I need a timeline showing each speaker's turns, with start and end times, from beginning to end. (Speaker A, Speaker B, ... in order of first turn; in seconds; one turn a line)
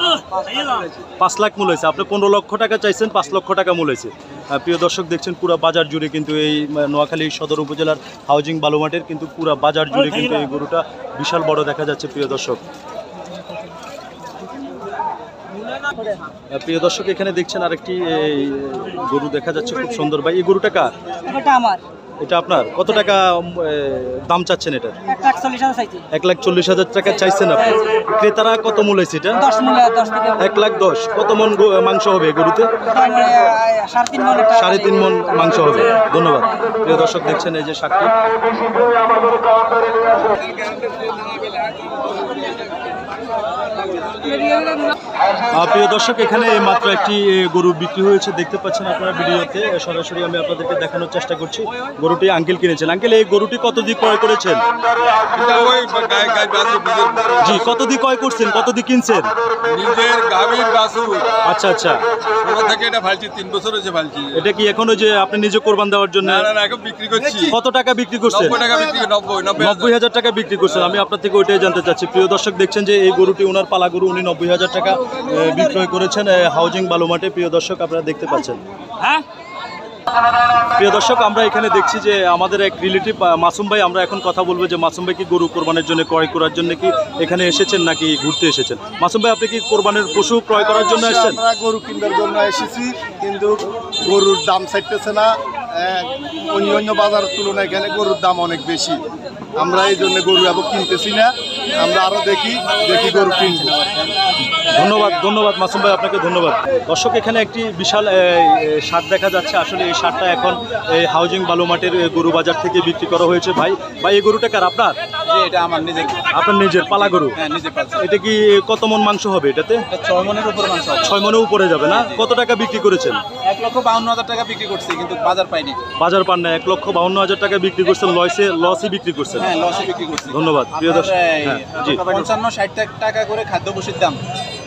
Speaker A: 0.6-0.8
Speaker B: 1.0-12.6
Speaker B: 16.5-20.9
Speaker C: 21.2-21.8
Speaker B: 22.2-25.0
Speaker C: 25.1-26.0
Speaker B: 26.1-29.5
Speaker C: 29.4-30.4
Speaker B: 30.4-32.8
Speaker C: 32.9-35.5
Speaker B: 34.5-38.1
Speaker B: 45.5-54.6
Speaker D: 55.3-57.5
Speaker B: 57.4-59.3
Speaker D: 59.6-61.3
Speaker B: 61.4-62.0
Speaker D: 62.4-64.3
Speaker B: 64.3-66.5
Speaker D: 66.3-67.5
Speaker B: 67.4-68.7
Speaker D: 68.4-69.8
Speaker B: 69.6-79.2
Speaker B: 80.7-91.4
Speaker E: 90.5-99.0
Speaker E: 99.6-103.8
Speaker B: 104.5-115.0
Speaker A: 115.3-116.3
Speaker B: 116.3-117.4
Speaker A: 117.2-118.0
Speaker B: 117.9-119.8
Speaker A: 119.9-121.1
Speaker B: 121.0-123.2
Speaker A: 121.9-122.2
Speaker A: 123.4-125.8
Speaker B: 126.0-129.5
Speaker A: 129.4-134.2
Speaker B: 130.3-132.2